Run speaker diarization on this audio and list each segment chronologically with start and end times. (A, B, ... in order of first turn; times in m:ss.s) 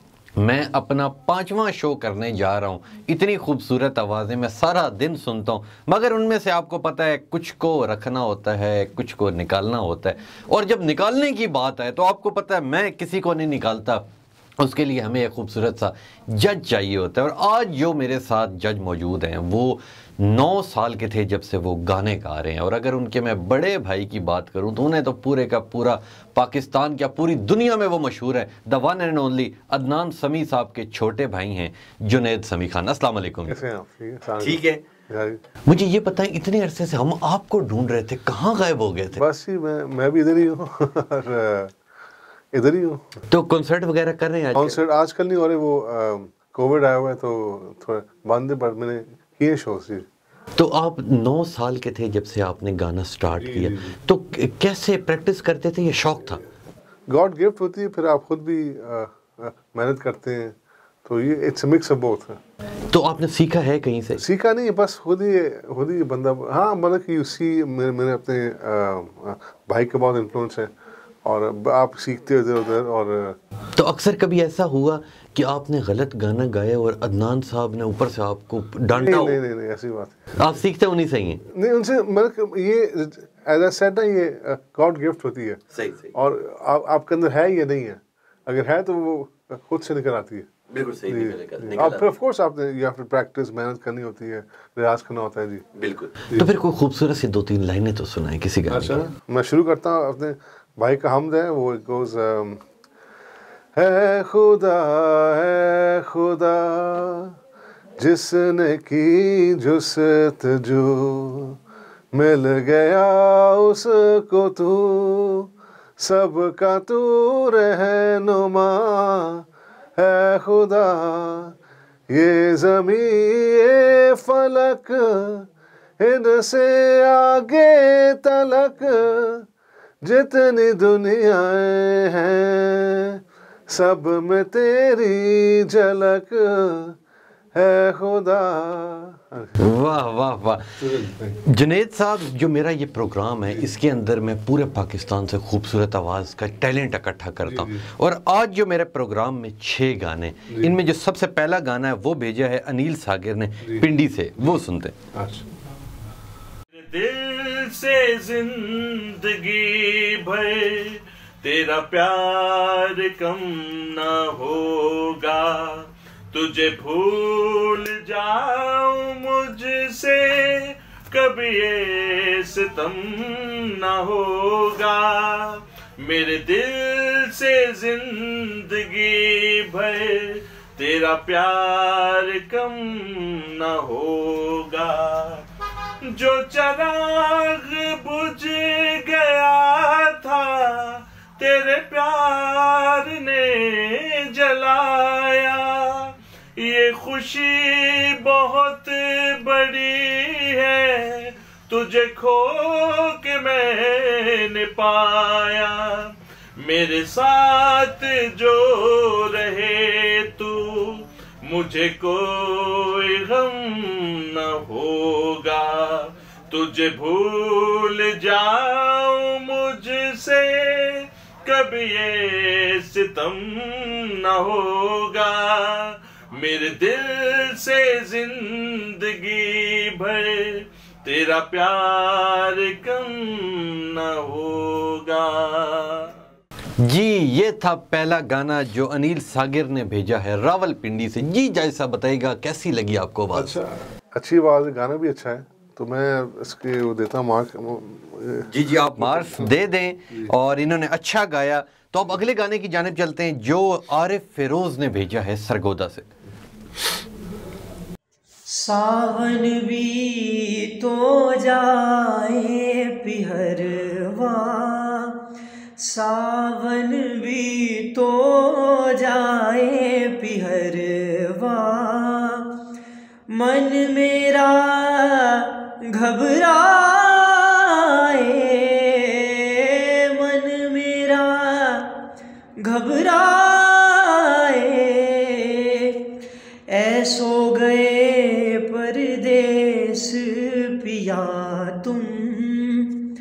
0:00.4-0:14.0 A
0:14.6-0:33.6 A
0:33.5-0:35.4 B
0:34.4-0:34.8 A
0:35.7-0:39.2 A
0:39.1-0:41.7 B
0:42.5-0:43.1 B
0:43.3-0:44.8 A
0:44.5-0:50.1 B
0:50.6-0:56.4 A
0:53.3-0:54.0 B
0:57.1-1:02.4 B
1:02.9-1:04.2 A
1:04.2-1:10.7 B
1:11.2-1:13.4 B
1:13.8-1:19.4 A
1:18.9-1:20.4 B
1:20.4-1:21.4 A
1:21.5-1:25.6 B
1:25.7-1:26.1 A
1:26.1-1:30.5 B
1:30.7-1:32.1 A
1:31.1-1:35.6 B
1:35.8-1:39.1 A
1:38.7-1:42.6 B
1:43.7-1:47.3 B
1:48.0-1:51.6 B
1:52.1-1:59.4 B
2:00.0-2:01.5 B
2:02.1-2:09.5 B
2:10.0-2:17.0 B
2:17.5-2:19.6 B
2:19.6-2:20.8 A
2:20.8-2:21.4 B
2:21.4-2:34.9 A
2:27.4-2:27.9 B
2:30.5-2:30.8 B
2:35.1-2:35.5 B
2:36.7-3:05.4 C
3:06.0-3:26.1 C
3:26.6-3:56.1 C
3:56.8-4:03.6 A
4:03.3-4:09.5 B
4:08.5-4:16.1 A
4:18.5-4:25.2 D
4:25.8-4:32.5 D
4:33.3-4:42.0 D
4:42.6-4:46.0 D
4:46.7-4:53.0 D